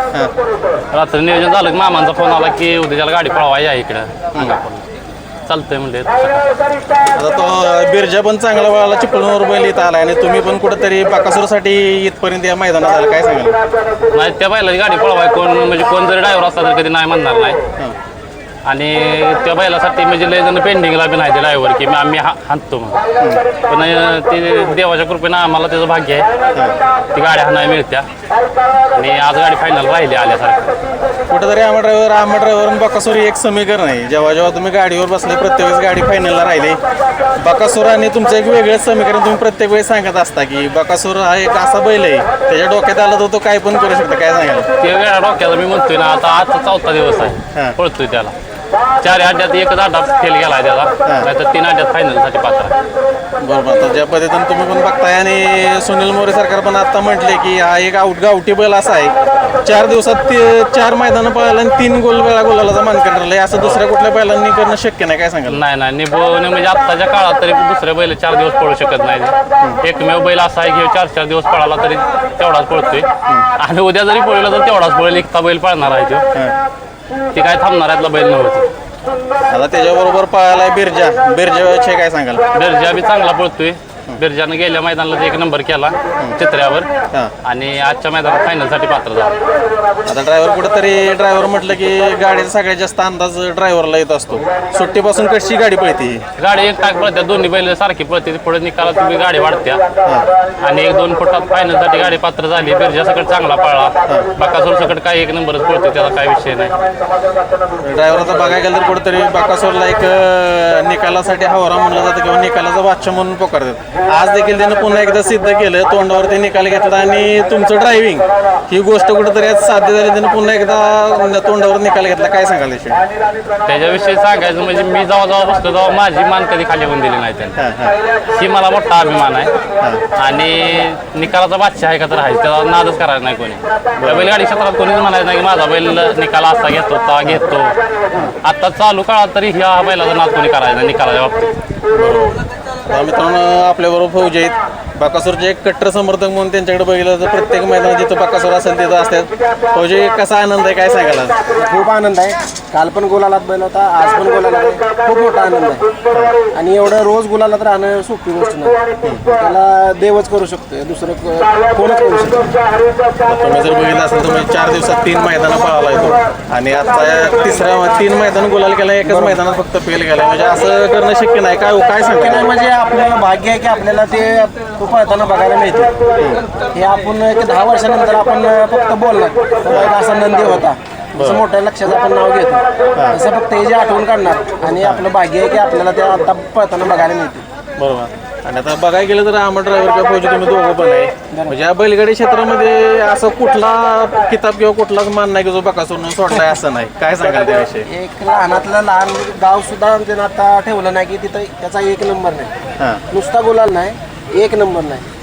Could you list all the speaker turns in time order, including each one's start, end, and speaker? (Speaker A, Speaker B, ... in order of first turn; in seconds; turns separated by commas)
Speaker A: 0.9-4.8, Speaker A: 5.5-6.5, Speaker B: 7.1-13.6, Speaker A: 14.1-17.6, Speaker A: 18.6-23.0, Speaker A: 23.6-26.2, Speaker A: 27.1-28.1, Speaker A: 28.9-30.7, Speaker B: 31.3-36.8, Speaker B: 37.4-44.7, Speaker A: 44.8-48.3, Speaker A: 49.0-52.7, Speaker B: 53.4-65.6, Speaker A: 63.6-63.8, Speaker A: 65.5-76.2, Speaker A: 77.3-78.7, Speaker B: 79.5-82.4, Speaker A: 82.5-86.9, Speaker A: 87.4-89.4, Speaker B: 90.0-96.2, Speaker A: 96.4-99.8, Speaker A: 100.6-106.8, Speaker B: 107.8-123.0, Speaker A: 123.7-127.6, Speaker B: 127.6-128.0, Speaker A: 128.3-129.5, Speaker A: 130.2-137.7, Speaker B: 134.0-134.3, Speaker A: 138.4-141.5, Speaker B: 141.9-151.4, Speaker C: 151.5-155.9, Speaker B: 156.1-156.4, Speaker C: 156.5-158.8, Speaker B: 159.0-159.4, Speaker C: 159.4-162.5, Speaker B: 163.2-172.5, Speaker C: 169.0-169.4, Speaker C: 172.0-175.9, Speaker B: 176.2-176.4, Speaker C: 176.6-187.4, Speaker B: 181.1-181.4, Speaker B: 184.8-185.0, Speaker B: 187.8-197.9, Speaker C: 191.3-191.6, Speaker C: 197.9-202.5, Speaker C: 203.1-205.1